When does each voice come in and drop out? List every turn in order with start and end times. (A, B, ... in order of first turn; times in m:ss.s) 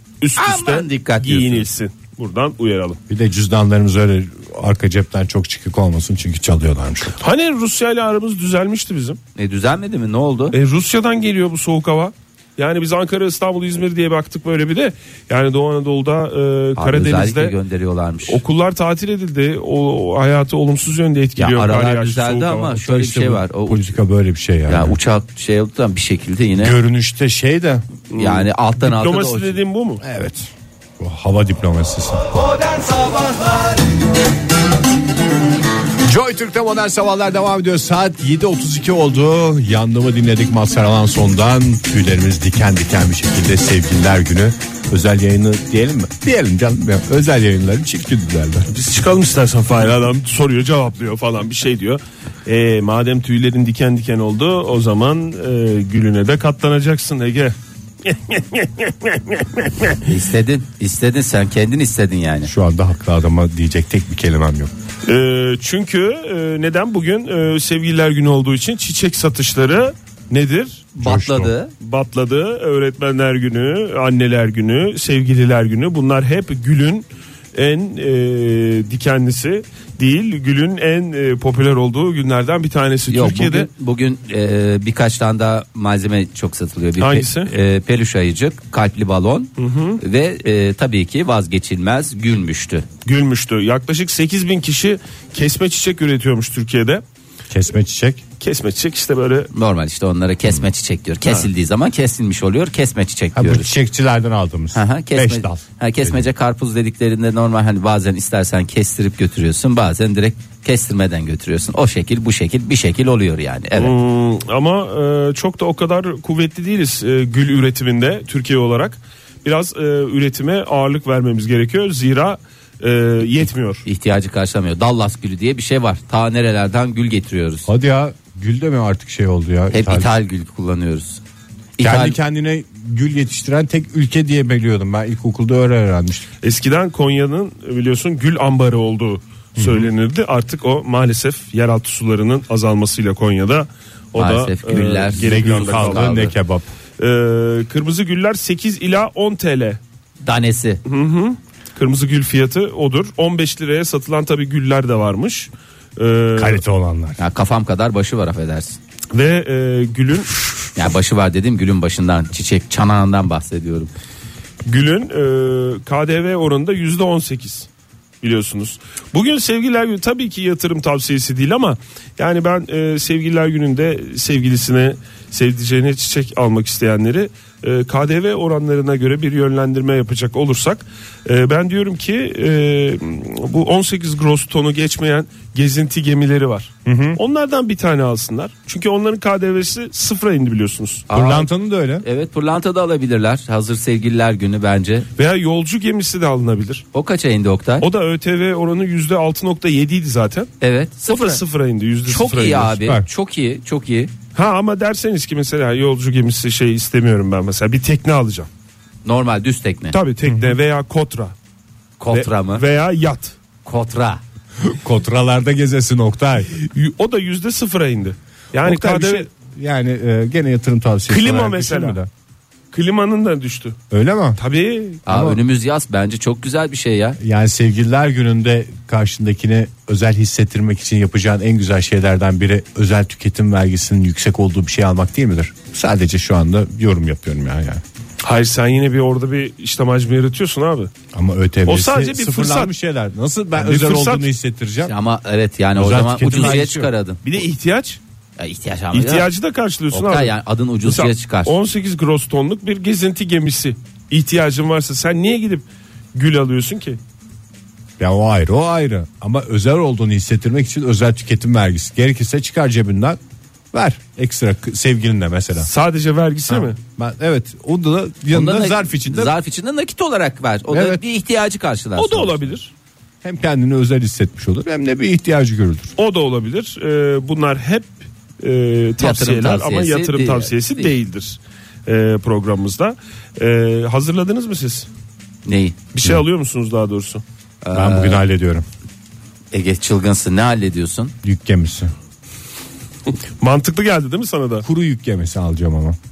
0:00.2-0:03.0 A
0:00.4-0:01.7 B
0:03.1-0:07.2 C
0:07.2-0:09.2 A
0:09.4-0:10.6 B
0:10.5-0:17.6 A
0:16.8-0:18.4 B
0:18.3-0:22.8 A
0:21.4-0:24.0 B
0:22.8-0:25.0 C
0:24.7-0:26.8 B
0:26.6-0:27.8 C
0:28.1-0:30.0 A
0:28.2-0:29.6 B
0:30.0-0:32.3 C
0:36.0-0:48.7 C
0:48.7-1:00.0 A
1:00.0-1:02.5 B
1:02.5-1:04.7 C
1:05.0-1:10.9 A
1:11.0-1:11.7 B
1:11.0-1:11.5 C
1:11.8-1:23.7 A
1:23.1-1:32.9 B
1:27.0-1:27.5 A
1:29.6-1:30.0 A
1:33.0-1:37.0 A
1:37.5-1:38.2 C
1:38.4-1:39.5 A
1:39.5-1:43.7 B
1:43.4-1:46.2 C
1:44.7-1:53.9 B
1:53.8-2:03.8 A
2:03.8-2:07.7 B
2:07.7-2:10.1 C
2:09.7-2:11.2 B
2:11.8-2:12.2 B
2:11.8-2:16.3 C
2:16.4-2:26.2 A
2:19.6-2:19.9 C
2:24.2-2:26.3 B
2:25.1-2:26.7 C
2:27.0-2:29.8 A
2:30.2-2:30.8 B
2:30.8-2:36.6 A
2:36.4-2:37.2 C
2:37.2-2:38.8 B
2:39.1-2:40.3 A
2:40.8-2:43.9 B
2:44.6-2:47.7 A
2:48.2-3:11.1 A
3:06.8-3:07.2 C
3:11.1-3:11.5 B
3:11.1-3:12.0 C
3:12.0-3:15.1 B
3:15.2-3:16.8 A
3:16.9-3:17.9 B
3:17.8-3:20.5 A
3:20.6-3:21.4 B
3:21.1-3:22.8 A
3:22.1-3:24.1 B
3:22.8-3:23.1 C
3:24.4-3:28.5 A
3:29.0-3:30.0 B
3:29.9-3:31.3 A
3:30.2-3:30.6 C
3:32.0-3:32.6 B
3:32.1-3:33.4 A
3:33.6-3:34.2 B
3:34.6-3:36.5 C
3:36.6-3:39.3 A
3:38.6-3:42.1 C
3:41.1-3:42.0 A
3:42.7-3:43.8 A
3:43.9-3:44.4 C
3:44.4-3:45.0 A
3:45.1-3:47.2 B
3:45.1-3:45.4 C
3:47.2-3:57.8 C
3:58.2-4:00.9 A
4:01.1-4:04.9 C
4:01.7-4:02.7 A
4:03.6-4:04.3 A
4:04.8-4:07.2 B
4:05.8-4:06.9 C
4:06.3-4:06.6 A
4:07.2-4:08.0 A
4:08.4-4:09.3 B
4:08.9-4:17.0 A
4:09.9-4:11.5 B
4:18.0-4:23.2 C
4:23.7-4:25.7 C
4:25.6-4:26.8 A
4:26.5-4:29.3 C
4:28.3-4:32.6 B
4:30.7-4:31.0 C
4:32.0-4:32.7 A
4:33.2-4:35.9 C
4:36.0-4:44.9 A
4:39.0-4:40.9 B
4:45.5-4:45.8 B
4:45.9-4:47.2 A
4:47.6-4:48.2 B
4:47.7-4:48.6 C
4:49.5-4:51.1 B
4:51.2-4:51.9 C
4:53.4-4:54.6 A
4:54.6-4:56.0 C